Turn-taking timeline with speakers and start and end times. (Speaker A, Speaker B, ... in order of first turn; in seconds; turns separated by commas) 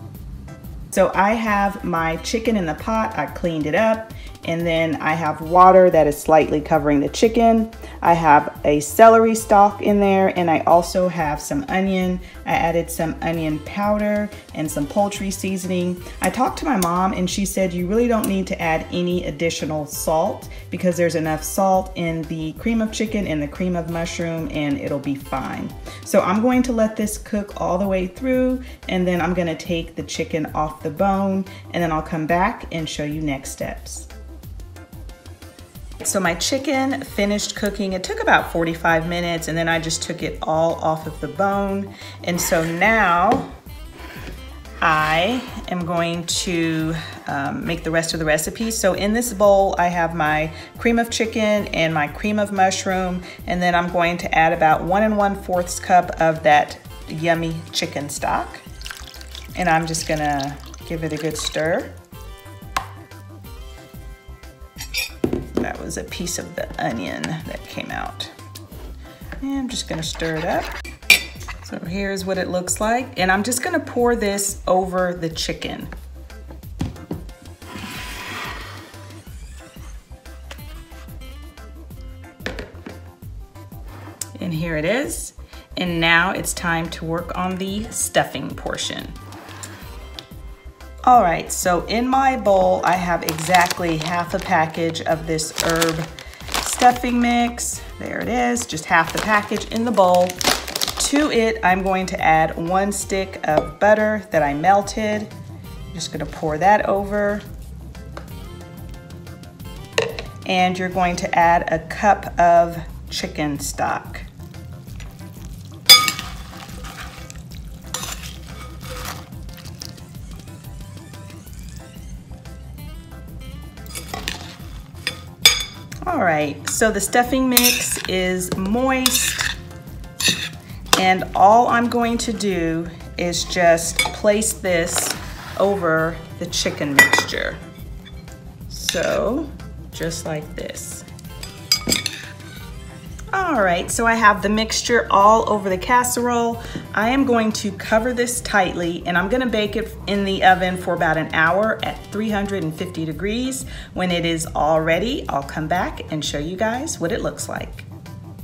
Speaker A: 0.9-34.1, Speaker A: 36.0-43.5, Speaker A: 44.8-58.6, Speaker A: 59.5-61.9, Speaker A: 65.5-68.3, Speaker A: 69.4-70.7, Speaker A: 71.6-75.9, Speaker A: 84.3-89.1, Speaker A: 91.0-96.1, Speaker A: 96.6-100.4, Speaker A: 101.0-105.3, Speaker A: 105.9-107.4, Speaker A: 110.4-114.3, Speaker A: 126.0-129.5, Speaker A: 130.9-137.6, Speaker A: 138.7-141.1, Speaker A: 143.3-157.9